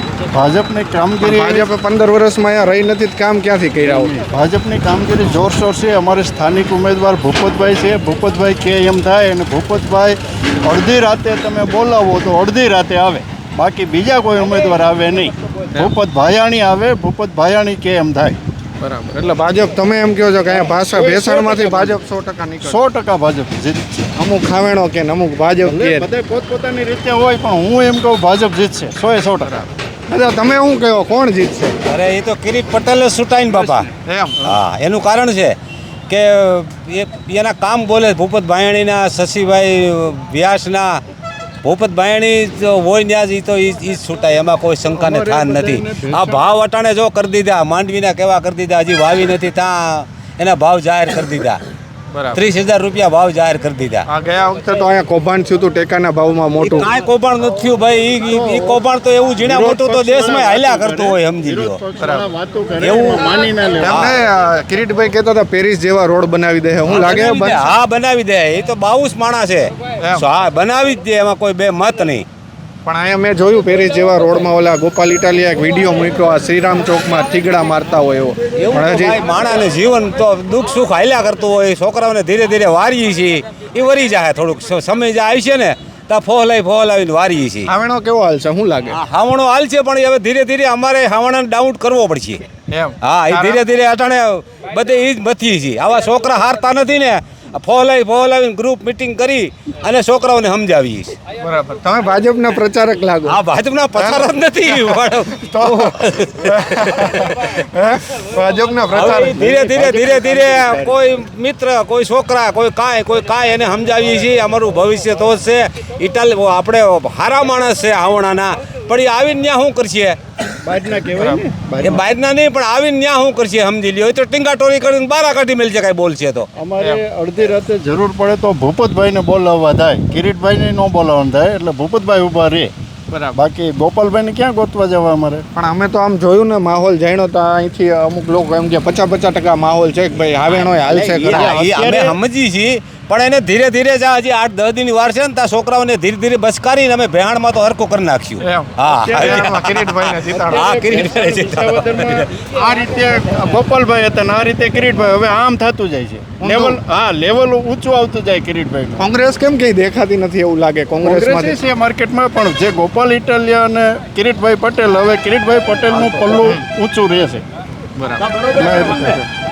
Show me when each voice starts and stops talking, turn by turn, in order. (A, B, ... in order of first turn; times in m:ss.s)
0:00.3-0:01.7 A
0:01.2-0:04.2 B
0:03.9-0:18.4 A
0:18.8-0:22.8 B
0:20.6-0:22.0 A
0:22.6-0:24.1 A
0:24.2-0:26.1 B
0:25.6-0:29.5 A
0:29.4-0:31.8 B
0:31.8-0:33.9 C
0:34.0-0:34.5 B
0:34.4-0:35.6 C
0:36.1-0:41.0 C
0:41.6-0:51.6 C
0:44.9-0:46.4 A
0:52.1-0:52.4 B
0:52.3-0:54.1 C
0:54.1-0:56.9 B
0:56.6-1:01.8 C
0:58.3-0:58.8 A
0:59.4-1:04.0 A
1:02.0-1:02.3 B
1:02.8-1:03.3 C
1:03.8-1:07.7 B
1:03.9-1:04.2 C
1:06.9-1:12.3 C
1:10.0-1:10.3 B
1:12.8-1:19.2 B
1:18.7-1:27.7 C
1:27.7-1:29.0 B
1:28.9-1:32.4 C
1:32.7-1:33.6 B
1:33.0-1:41.2 C
1:41.4-1:43.4 B
1:43.3-1:47.4 C
1:43.9-1:45.9 B
1:46.5-1:49.4 B
1:48.9-2:00.2 C
1:49.4-1:51.0 A
2:00.6-2:02.0 A
2:01.1-2:01.4 B
2:01.8-2:06.5 C
2:06.6-2:12.7 A
2:13.1-2:13.4 B
2:13.3-2:15.4 A
2:15.6-2:21.6 B
2:20.6-2:32.3 C
2:20.9-2:22.2 A
2:28.4-2:30.9 B
2:30.4-2:39.1 A
2:36.4-2:36.8 B
2:39.0-2:41.6 B
2:41.0-2:47.4 A
2:48.0-2:49.2 B